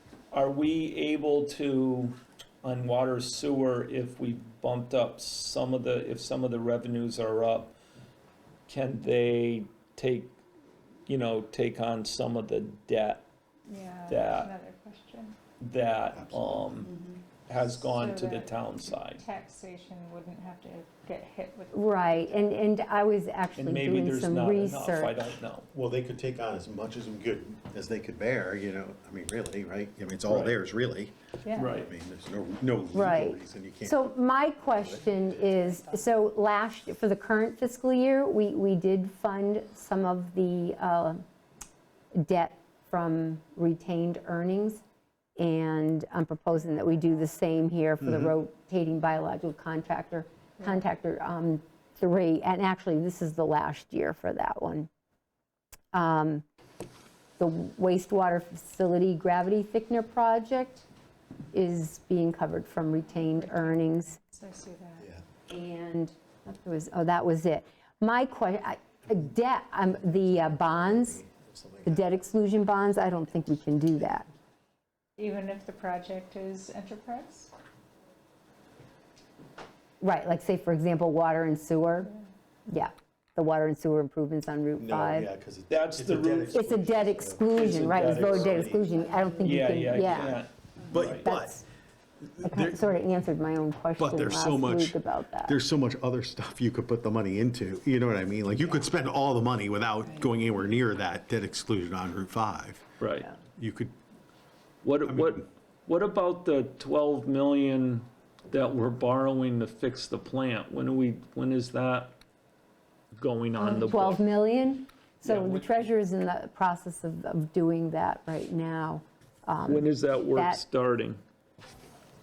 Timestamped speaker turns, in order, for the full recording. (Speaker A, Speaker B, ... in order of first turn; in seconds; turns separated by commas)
Speaker A: 0.3-7.7, Speaker A: 8.7-10.4, Speaker A: 11.1-13.3, Speaker B: 13.7-15.4, Speaker A: 14.1-14.5, Speaker A: 15.6-16.9, Speaker C: 16.1-17.1, Speaker A: 17.5-19.2, Speaker B: 17.8-22.5, Speaker D: 21.7-25.2, Speaker A: 23.6-25.7, Speaker C: 25.7-34.0, Speaker A: 30.3-30.6, Speaker B: 31.4-31.8, Speaker A: 31.6-31.9, Speaker D: 32.9-41.2, Speaker C: 34.7-35.2, Speaker D: 42.2-44.8, Speaker D: 45.4-54.9, Speaker D: 55.9-56.4, Speaker D: 57.4-60.9, Speaker D: 61.5-64.2, Speaker B: 63.2-65.1, Speaker D: 65.5-71.2, Speaker C: 70.6-72.1, Speaker D: 71.9-74.3, Speaker B: 75.2-77.5, Speaker D: 80.0-82.1, Speaker D: 82.7-85.3, Speaker C: 84.8-89.0, Speaker A: 85.7-86.8, Speaker D: 86.5-90.4, Speaker A: 87.5-91.3, Speaker C: 89.9-91.6, Speaker D: 91.1-91.6, Speaker C: 92.2-92.9, Speaker D: 92.4-95.6, Speaker C: 94.0-102.9, Speaker A: 103.0-103.3, Speaker C: 103.6-103.9, Speaker A: 104.8-112.2, Speaker C: 105.0-105.5, Speaker A: 113.2-114.2, Speaker D: 113.6-120.6, Speaker A: 115.2-115.9, Speaker A: 119.7-121.2